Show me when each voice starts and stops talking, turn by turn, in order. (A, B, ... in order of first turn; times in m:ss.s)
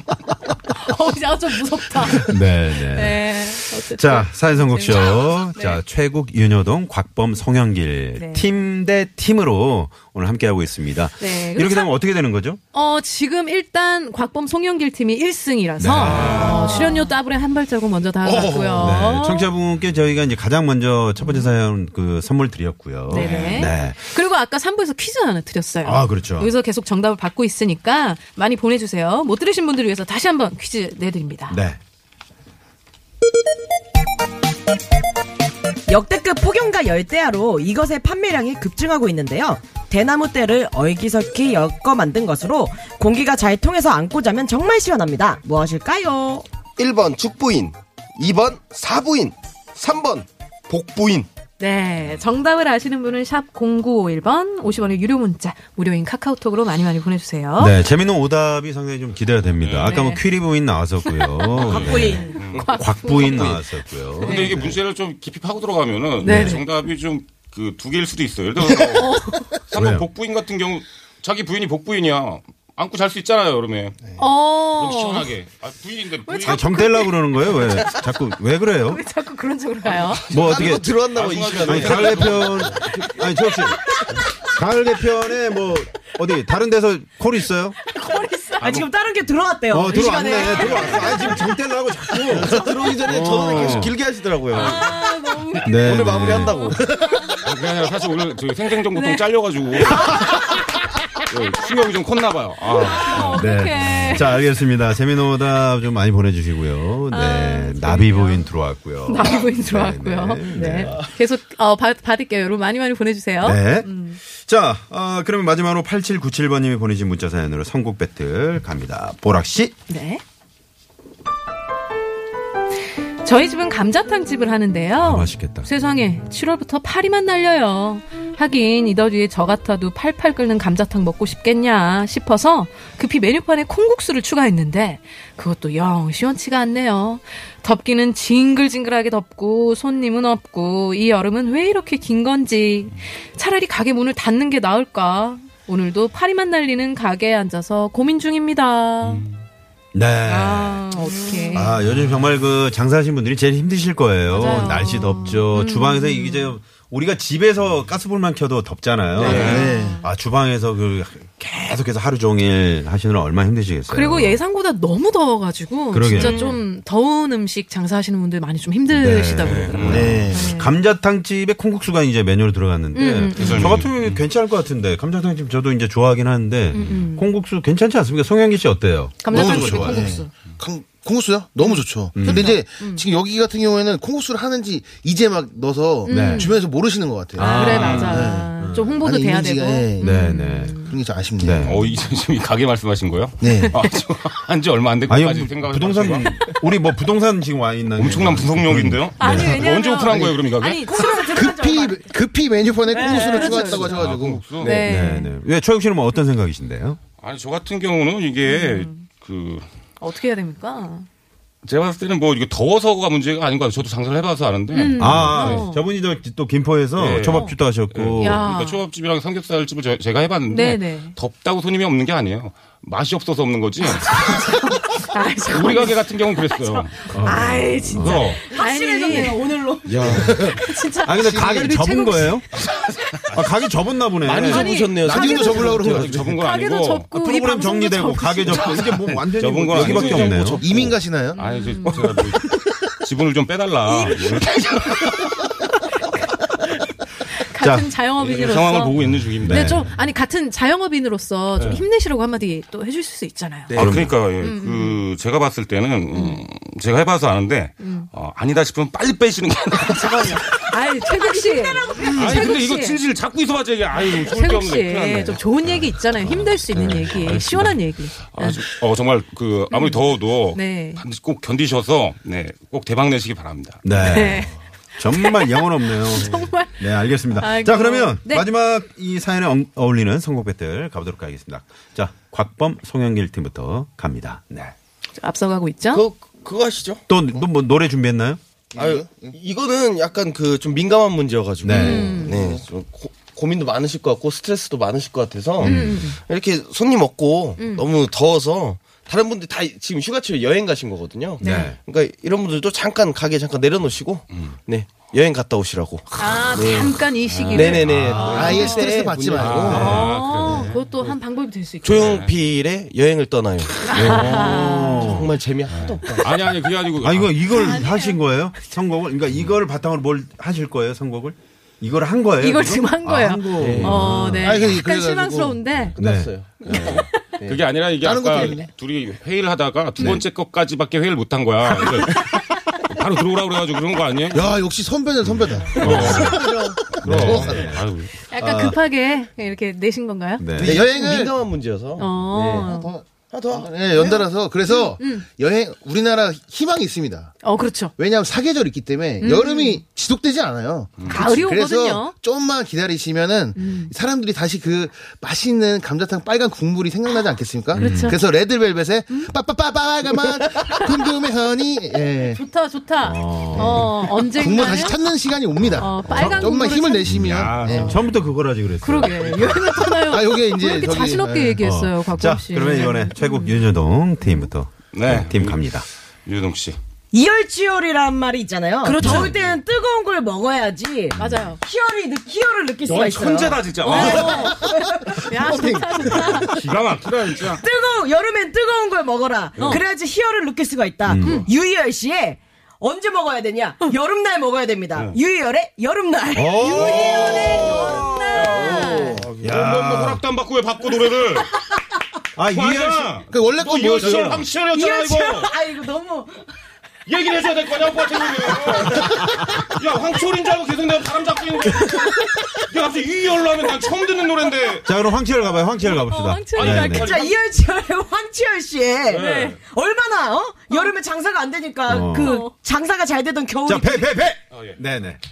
0:00.6-0:05.8 A
0:02.1-0:12.6 B
0:08.2-0:08.6 A
0:11.2-0:11.9 A
0:12.7-0:19.5 A
0:15.8-0:16.7 B
0:16.0-0:17.1 C
0:18.2-0:18.9 D
0:18.4-0:24.1 B
0:21.2-0:21.5 A
0:23.1-0:31.6 A
0:23.1-0:23.7 C
0:25.8-0:26.5 B
0:31.5-0:31.8 B
0:35.9-0:46.4 E
0:46.8-0:51.3 F
0:51.6-0:57.8 A
0:57.6-1:04.8 B
0:59.6-1:00.0 C
0:59.8-1:00.3 A
1:01.1-1:03.6 A
1:01.6-1:02.8 C
1:01.7-1:02.4 E
1:04.2-1:04.6 A
1:04.2-1:14.0 C
1:06.2-1:06.6 A
1:06.2-1:06.6 B
1:08.8-1:09.6 A
1:09.7-1:10.1 B
1:14.2-1:15.3 A
1:14.8-1:16.7 C
1:16.3-1:18.0 A
1:16.4-1:19.0 B
1:18.9-1:20.2 A
1:19.8-1:22.9 C
1:20.3-1:20.9 B
1:20.3-1:22.5 F
1:21.6-1:23.8 B
1:24.4-1:27.8 B
1:27.9-1:28.9 A
1:28.6-1:31.3 E
1:29.7-1:33.9 B
1:30.5-1:31.3 C
1:32.2-1:34.8 F
1:33.2-1:33.9 C
1:34.5-1:35.0 C
1:34.5-1:37.4 A
1:35.6-1:36.8 B
1:35.6-1:37.3 F
1:37.4-1:40.6 C
1:39.0-1:39.2 A
1:41.3-1:43.4 C
1:42.8-1:44.4 A
1:43.3-1:51.0 B
1:47.1-1:48.5 A
1:49.1-1:54.2 A
1:50.7-1:51.0 F
1:53.4-1:59.7 B
1:59.9-2:00.2 A
2:03.2-2:29.2 A
2:05.0-2:05.7 B
2:29.0-2:29.4 C
2:29.9-2:44.4 B
2:30.3-2:31.8 A
2:31.8-2:32.3 C
2:34.3-2:36.6 A
2:39.2-2:39.7 C
2:39.2-2:40.1 A
2:39.2-2:40.0 D
2:43.9-2:50.8 A
2:45.9-2:46.5 B
2:46.2-2:46.5 C
2:48.9-3:00.2 B
2:49.4-2:50.2 C
2:49.9-2:50.5 D
2:52.9-2:53.9 A
2:53.4-2:54.3 C
2:56.7-2:57.3 A
2:56.8-2:57.0 C
2:59.2-3:00.3 A
2:59.3-3:10.3 D
3:01.6-3:03.1 A
3:02.2-3:02.6 B
3:06.0-3:06.6 A
3:06.1-3:06.5 B
3:07.4-3:11.0 A
3:07.4-3:08.2 C
3:07.4-3:09.0 B
3:10.0-3:10.8 B
3:10.8-3:11.6 D
3:11.4-3:11.9 B
3:11.6-3:16.6 C
3:13.4-3:13.8 D
3:13.4-3:13.7 A
3:15.1-3:19.6 B
3:18.0-3:20.9 C
3:19.2-3:21.1 A
3:20.6-3:22.1 E
3:21.0-3:24.5 D
3:22.9-3:24.0 E
3:22.9-3:24.0 A
3:23.6-3:24.8 C
3:24.6-3:25.3 A
3:24.8-3:27.0 B
3:27.2-3:29.6 C
3:28.4-3:29.0 A
3:30.0-3:31.1 A
3:31.6-3:35.6 C
3:34.7-3:35.8 A
3:35.0-3:38.5 B
3:37.0-3:44.4 C
3:38.2-3:38.8 A
3:40.5-3:41.2 A
3:44.0-3:46.1 A
3:45.5-3:47.1 C
3:47.1-3:48.4 B
3:47.2-3:49.4 A
3:48.0-3:48.4 C
3:48.4-3:50.3 E
3:49.8-3:52.6 B
3:50.0-3:51.4 D
3:50.4-3:52.4 A
3:53.3-3:56.4 B
3:54.2-3:56.2 F
3:54.5-3:55.5 A
3:54.7-3:55.7 E
3:55.0-3:56.2 D
3:55.7-3:57.1 C
3:56.3-3:58.9 A
3:57.1-4:00.6 B
3:58.5-4:00.8 C
3:59.8-4:00.6 A
4:00.6-4:01.4 D
4:01.4-4:02.1 A
4:01.4-4:04.9 C
4:02.0-4:02.4 F
4:07.3-4:13.8 A
4:07.6-4:07.9 B
4:08.2-4:09.9 C
4:09.4-4:09.9 B
4:11.6-4:11.8 C
4:13.7-4:20.7 C
4:13.7-4:14.2 B
4:14.4-4:15.0 A
4:16.1-4:16.4 A
4:17.8-4:18.1 A
4:19.9-4:23.0 A
4:22.0-4:33.9 C
4:23.9-4:28.6 A
4:29.7-4:31.0 A
4:33.8-4:44.7 B
4:33.9-4:38.5 A
4:45.2-4:46.0 A
4:45.9-4:47.0 F
4:47.1-4:48.4 B
4:48.7-4:49.4 D
4:48.8-5:10.7 F
4:51.6-4:52.3 B
4:51.7-4:52.6 A
4:55.6-4:56.2 A
4:55.6-4:56.1 B
4:57.6-4:57.9 A
5:01.4-5:01.7 A
5:01.4-5:01.8 B
5:06.2-5:08.9 A
5:07.3-5:08.1 C
5:08.0-5:08.4 B
5:08.1-5:10.1 D
5:09.3-5:11.1 C
5:09.7-5:12.2 A
5:09.7-5:10.1 B
5:11.8-5:16.3 F
5:11.9-5:12.4 C
5:13.8-5:15.3 A
5:13.9-5:14.6 C
5:13.9-5:15.3 B
5:15.7-5:17.8 C
5:15.8-5:16.2 E
5:17.0-5:24.8 B
5:17.5-5:18.2 A
5:22.4-5:26.0 A
5:23.6-5:24.1 F
5:24.4-5:25.6 D
5:26.0-5:27.6 F
5:26.0-5:26.3 B
5:26.6-5:34.6 C
5:26.6-5:27.2 A
5:28.0-5:28.7 D
5:34.3-5:37.8 D
5:35.7-5:36.4 B
5:35.8-5:36.4 C
5:35.8-5:36.6 A
5:37.0-5:38.1 C
5:37.0-5:38.8 B
5:38.3-5:40.5 A
5:40.4-5:40.8 B
5:40.6-5:41.4 D
5:40.6-5:43.7 F
5:42.0-5:43.0 A
5:42.4-5:47.4 D
5:44.0-5:45.2 A
5:47.4-5:47.9 A
5:48.0-6:02.4 D
5:49.2-5:49.8 A
5:51.0-5:51.2 C
5:51.1-5:52.2 A
5:53.6-5:53.9 A
5:57.1-5:58.2 A
5:57.7-5:58.2 B
6:00.5-6:01.1 A
6:02.2-6:05.0 A
6:03.0-6:03.9 B
6:03.6-6:08.0 D
6:05.6-6:06.5 B
6:05.8-6:07.8 A
6:07.2-6:08.2 C
6:07.5-6:09.9 B
6:08.8-6:14.5 A
6:10.0-6:11.6 D
6:11.6-6:15.9 B
6:14.9-6:15.7 C
6:16.3-6:16.8 C
6:17.1-6:26.4 E
6:18.9-6:19.3 A
6:19.0-6:19.3 B
6:19.1-6:19.6 C
6:21.1-6:21.5 B
6:21.2-6:21.6 A
6:22.9-6:24.5 C
6:23.8-6:24.7 A
6:25.2-6:26.6 A
6:25.4-6:25.8 D
6:26.1-6:27.6 C
6:27.5-6:38.4 E
6:29.6-6:29.8 C
6:29.6-6:29.8 A
6:31.1-6:31.5 B
6:31.2-6:31.5 A
6:34.9-6:35.2 C
6:36.3-6:38.0 B
6:36.6-6:41.8 C
6:37.3-6:39.3 A
6:38.0-6:39.3 D
6:39.4-6:40.2 B
6:42.4-6:43.2 B
6:42.5-6:45.6 C
6:43.3-6:44.5 D
6:44.6-6:46.5 E
6:47.1-6:54.9 C
6:54.8-6:57.1 B
6:55.8-6:57.2 A
6:56.6-6:57.4 C
6:56.9-7:04.1 E
6:59.1-6:59.6 C
6:59.1-6:59.6 A
7:00.7-7:01.0 A
7:01.9-7:02.4 B
7:02.1-7:02.5 A
7:03.6-7:05.2 B
7:04.5-7:04.8 C